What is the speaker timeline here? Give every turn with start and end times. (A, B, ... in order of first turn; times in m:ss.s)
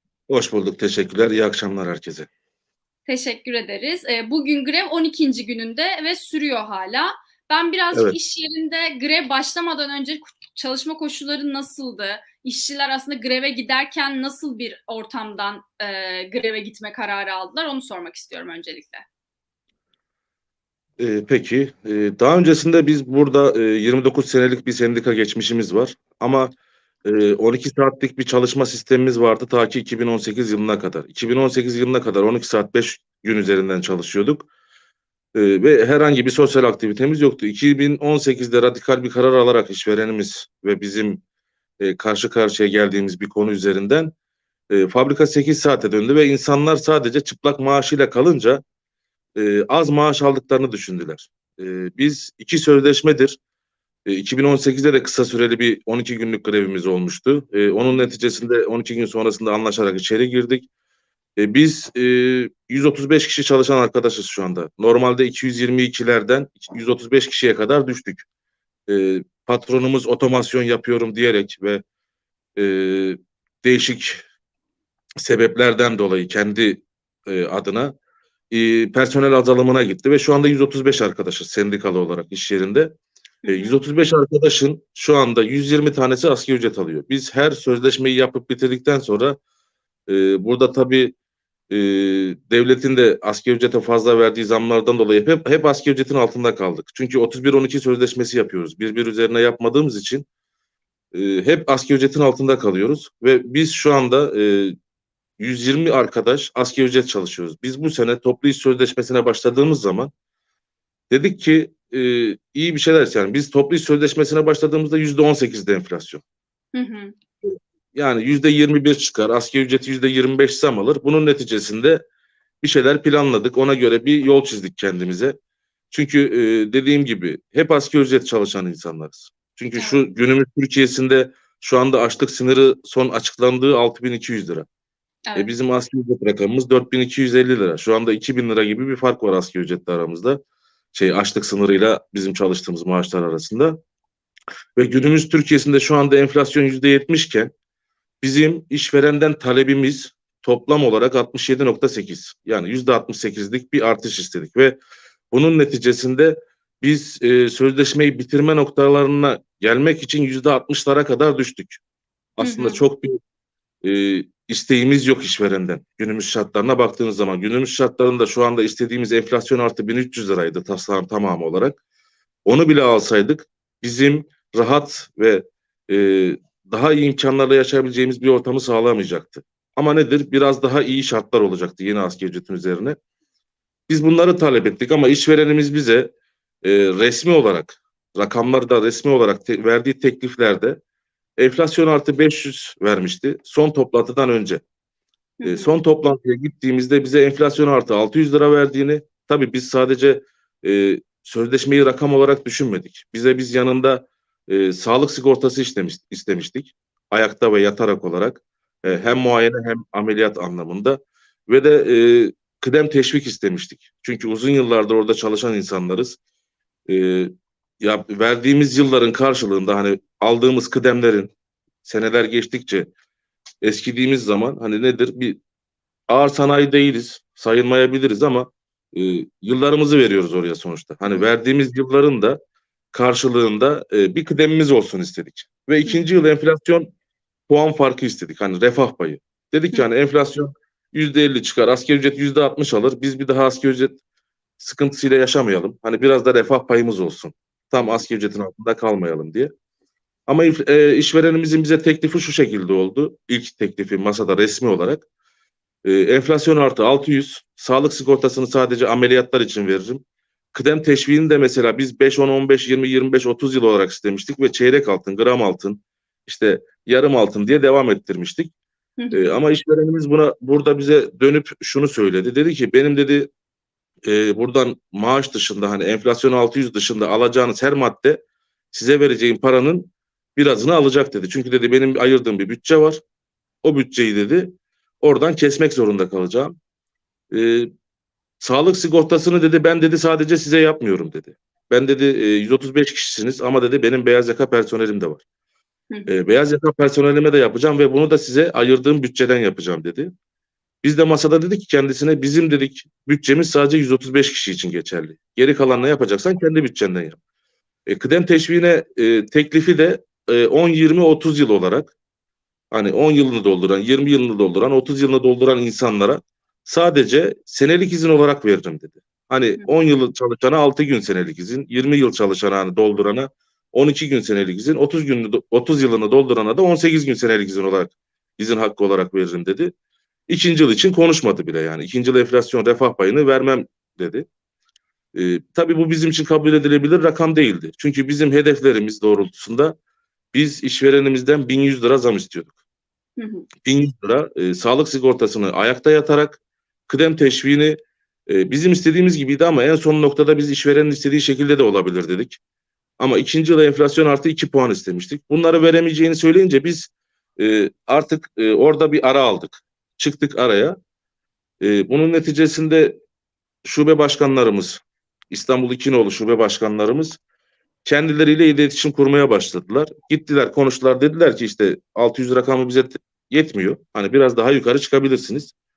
0:00.3-0:02.3 A
0:03.1-0:19.0 B
0:21.0-0:26.5 A
0:27.0-0:34.5 A
0:35.3-0:41.2 A
0:41.8-0:44.1 A
0:44.7-0:48.6 A
0:49.4-0:53.4 A
0:54.1-1:00.7 A
1:01.4-1:08.3 A
1:08.9-1:11.8 A
1:12.6-1:14.2 A
1:15.2-1:17.9 A
1:18.5-1:22.9 A
1:23.4-1:23.8 B
1:23.5-1:29.4 A
1:30.1-1:31.2 A
1:31.7-1:40.2 A
1:41.1-1:44.8 A
1:45.4-1:50.1 A
1:51.1-1:56.2 A
1:56.7-1:57.1 B
1:57.4-2:02.0 A
2:02.6-2:05.4 A
2:05.9-2:14.7 A
2:09.8-2:10.0 B
2:15.4-2:20.4 A
2:20.9-2:23.8 A
2:24.8-2:27.5 A
2:28.2-2:34.8 A
2:35.3-2:41.8 A
2:42.4-2:43.2 A
2:42.4-2:42.8 B
2:43.8-2:51.8 A
2:52.5-3:03.0 A
3:03.9-3:06.1 A
3:06.6-3:10.8 A
3:11.4-3:14.6 A
3:15.4-3:15.8 B
3:15.5-3:36.2 A
3:28.9-3:29.3 B
3:36.9-3:41.3 A
3:41.8-3:42.9 A
3:43.6-3:45.4 A
3:46.1-3:52.4 A
3:52.9-3:56.9 A
3:57.5-4:04.0 A
4:04.6-4:09.5 A
4:07.8-4:08.0 B
4:10.3-4:15.0 A
4:15.8-4:28.5 A
4:29.0-4:29.2 B
4:29.1-4:33.3 A
4:34.0-4:38.2 A
4:38.7-4:43.0 A
4:43.6-4:46.6 A
4:47.3-4:47.7 A
4:48.4-4:55.2 A
4:56.1-5:00.1 A
5:00.8-5:07.2 A
5:07.9-5:11.9 A
5:12.7-5:29.7 A
5:30.3-5:34.3 A
5:35.2-5:39.8 A
5:40.3-5:42.5 A
5:43.2-5:43.5 B
5:43.6-5:47.8 A
5:48.3-5:52.4 A
5:53.0-6:00.8 A
6:01.6-6:03.0 A
6:03.6-6:04.8 A
6:05.3-6:07.2 A
6:07.8-6:15.5 A